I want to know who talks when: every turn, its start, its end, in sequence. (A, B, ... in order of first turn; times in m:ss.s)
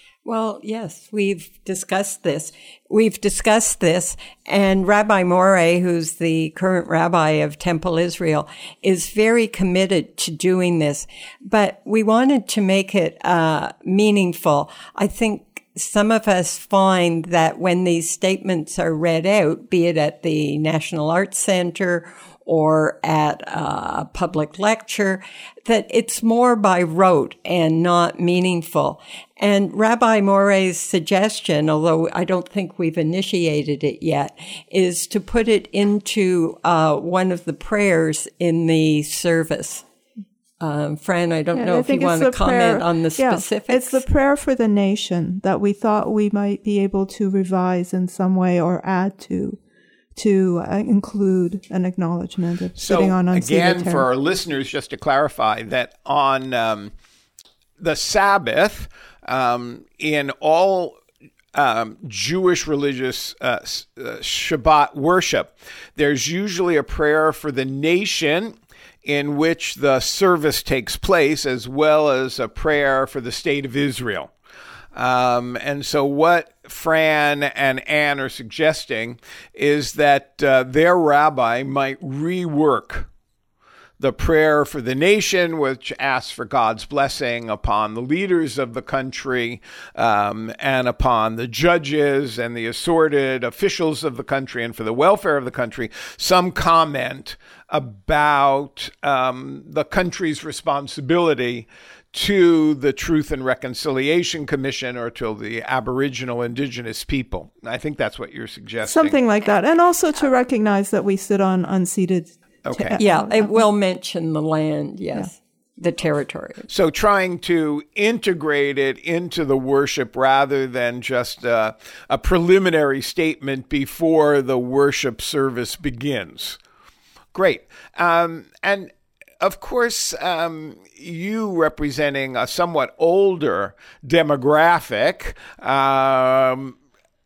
0:00.2-0:39.8 A
0:40.6-0:44.0 A
0:41.5-0:49.6 B
0:50.2-0:54.1 B
0:52.8-0:56.9 C
0:57.8-1:01.0 C
1:01.5-1:14.3 C
1:14.9-1:23.1 C
1:24.0-1:49.2 C
1:48.8-1:53.6 B
1:52.6-1:53.0 C
1:53.0-1:56.7 A
1:56.7-2:06.6 C
2:07.3-2:16.8 C